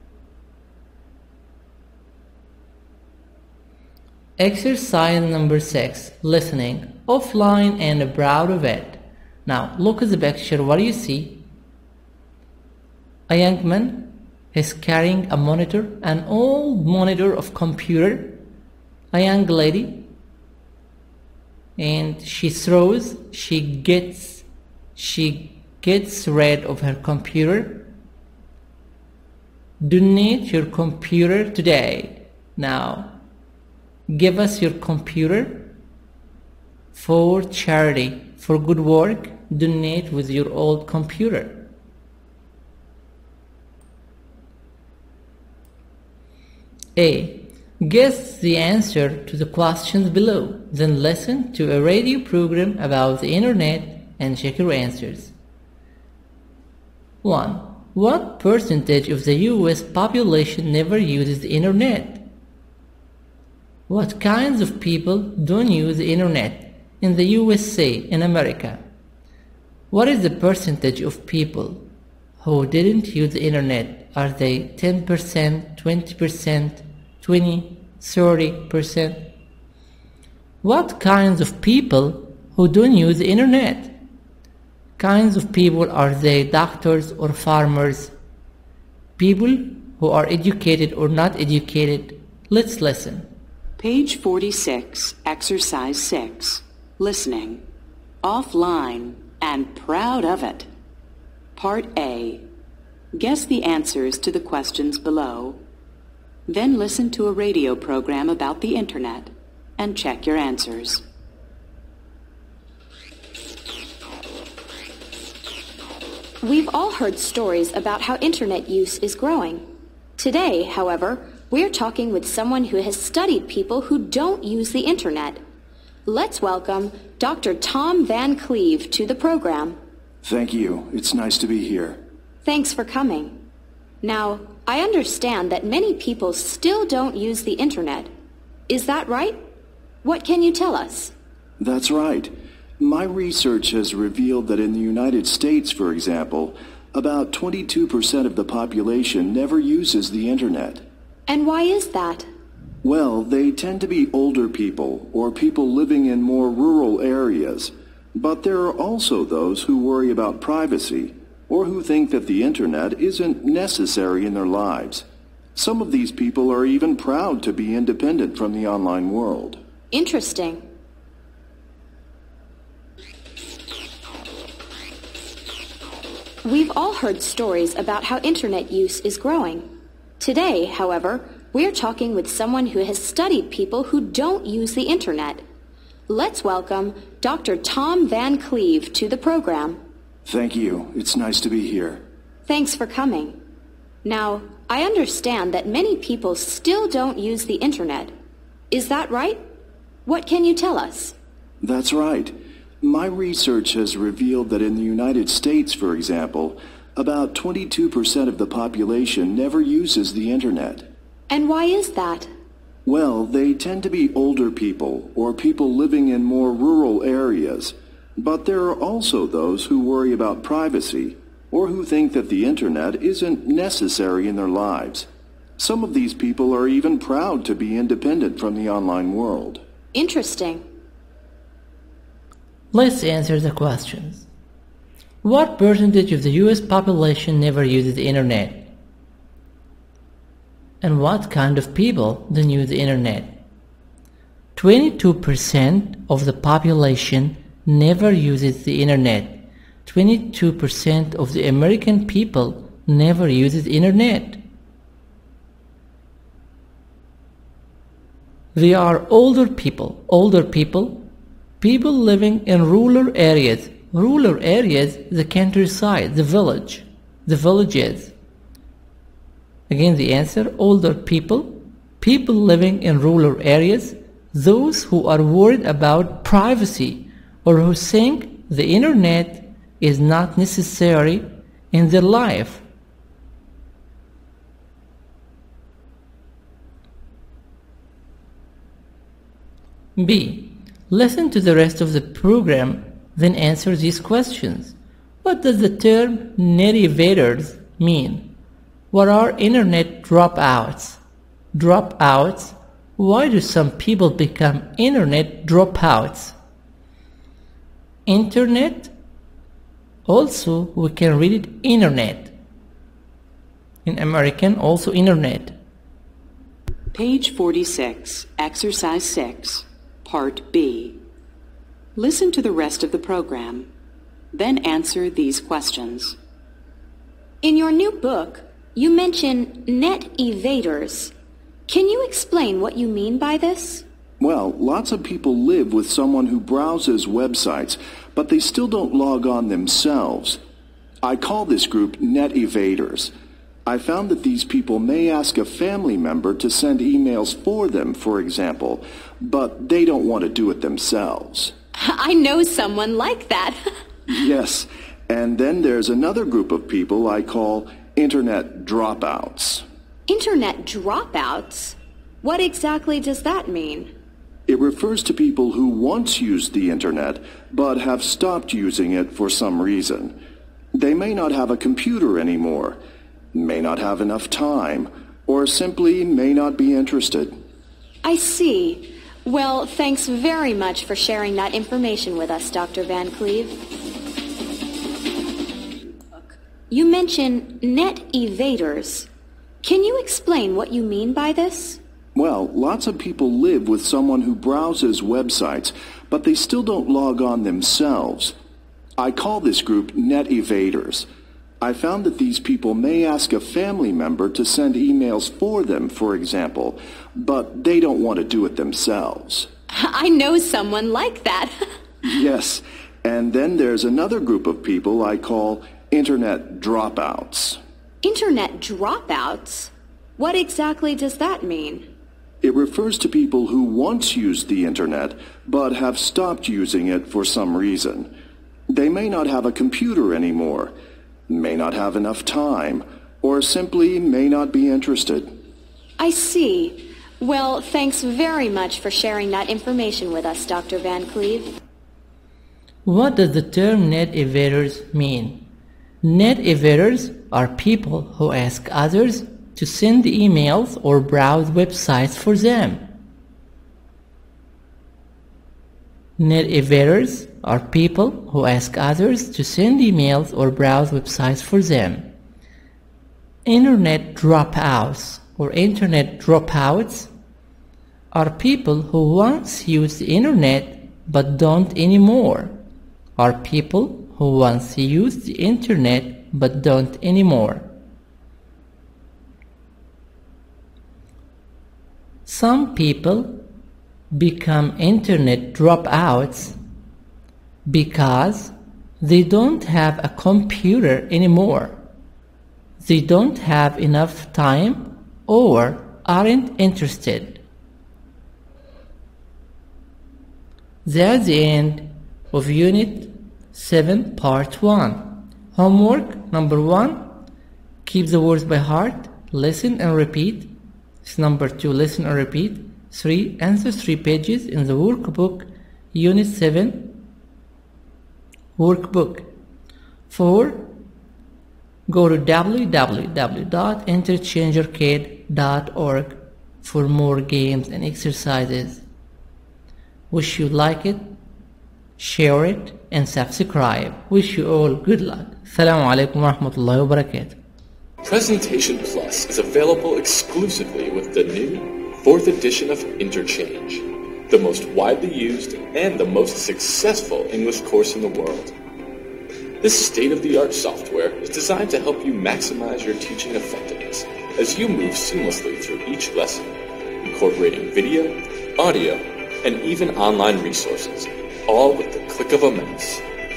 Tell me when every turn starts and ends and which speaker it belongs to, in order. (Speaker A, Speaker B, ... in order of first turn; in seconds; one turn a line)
Speaker A: 4.4-11.4
Speaker A: 13.3-18.4
Speaker A: 19.1-20.1
Speaker A: 21.8-24.4
Speaker A: 24.9-27.9
Speaker A: 29.8-33.2
Speaker A: 34.1-35.8
Speaker A: 36.9-41.7
Speaker A: 47.0-55.3
Speaker A: 57.2-62.3
Speaker A: 63.9-68.8
Speaker A: 69.9-71.8
Speaker A: 72.4-79.3
Speaker A: 80.6-83.9
Speaker A: 85.0-88.1
Speaker A: 89.2-93.3
Speaker B: 93.8-97.6
Speaker B: 98.2-100.7
Speaker B: 101.5-102.4
Speaker B: 103.1-105.6
Speaker B: 106.5-111.0
Speaker C: 116.4-119.6
Speaker C: 120.2-125.4
Speaker C: 126.0-129.8
Speaker D: 130.2-132.0
Speaker C: 132.4-133.3
Speaker C: 134.0-138.1
Speaker C: 138.7-139.4
Speaker C: 140.0-141.1
Speaker D: 141.6-150.8
Speaker C: 151.3-152.3
Speaker D: 152.8-169.6
Speaker C: 169.9-170.6
Speaker C: 176.4-179.7
Speaker C: 180.2-185.4
Speaker C: 186.1-189.8
Speaker D: 190.2-192.0
Speaker C: 192.5-193.4
Speaker C: 194.0-198.1
Speaker C: 198.7-199.4
Speaker C: 200.1-201.2
Speaker D: 201.6-210.9
Speaker C: 211.3-212.3
Speaker D: 212.8-229.6
Speaker C: 229.9-230.6
Speaker A: 232.7-234.3
Speaker A: 235.2-238.7
Speaker A: 240.8-243.4
Speaker A: 244.6-254.4
Speaker A: 258.5-261.1
Speaker A: 261.6-268.1
Speaker A: 269.7-282.6
Speaker A: 290.0-298.3
Speaker A: 298.9-301.0
Speaker A: 301.5-306.3
Speaker A: 308.1-308.9
Speaker A: 310.1-312.3
Speaker A: 313.8-315.6
Speaker B: 316.9-321.0
Speaker B: 321.9-323.7
Speaker B: 324.3-326.2
Speaker C: 327.4-331.1
Speaker C: 331.7-333.8
Speaker D: 334.2-340.4
Speaker D: 341.0-343.1
Speaker D: 343.6-351.5
Speaker C: 351.8-353.6
Speaker D: 354.1-359.6
Speaker C: 360.1-363.9
Speaker D: 364.5-370.2
Speaker D: 370.7-372.8
Speaker D: 373.3-377.4
Speaker C: 378.0-383.6
Speaker C: 386.7-389.1
Speaker C: 389.6-391.8
Speaker D: 392.1-398.3
Speaker D: 399.0-401.1
Speaker D: 401.6-409.5
Speaker C: 409.7-411.5
Speaker D: 412.0-417.6
Speaker C: 418.0-421.9
Speaker D: 422.4-428.1
Speaker D: 428.7-430.7
Speaker D: 431.3-435.3
Speaker C: 436.0-441.5
Speaker A: 442.8-445.5
Speaker A: 446.0-452.9
Speaker A: 456.2-462.1
Speaker A: 463.4-467.1
Speaker A: 468.1-472.6
Speaker A: 473.2-477.7
Speaker A: 482.2-483.4
Speaker A: 484.1-486.6
Speaker A: 487.6-491.8
Speaker A: 492.8-497.4
Speaker A: 500.8-507.1
Speaker A: 507.8-517.0
Speaker A: 518.6-519.3
Speaker A: 520.1-520.8
Speaker A: 521.9-528.8
Speaker A: 530.1-531.1
Speaker A: 532.0-537.4
Speaker E: 538.0-548.5
Speaker E: 549.6-563.0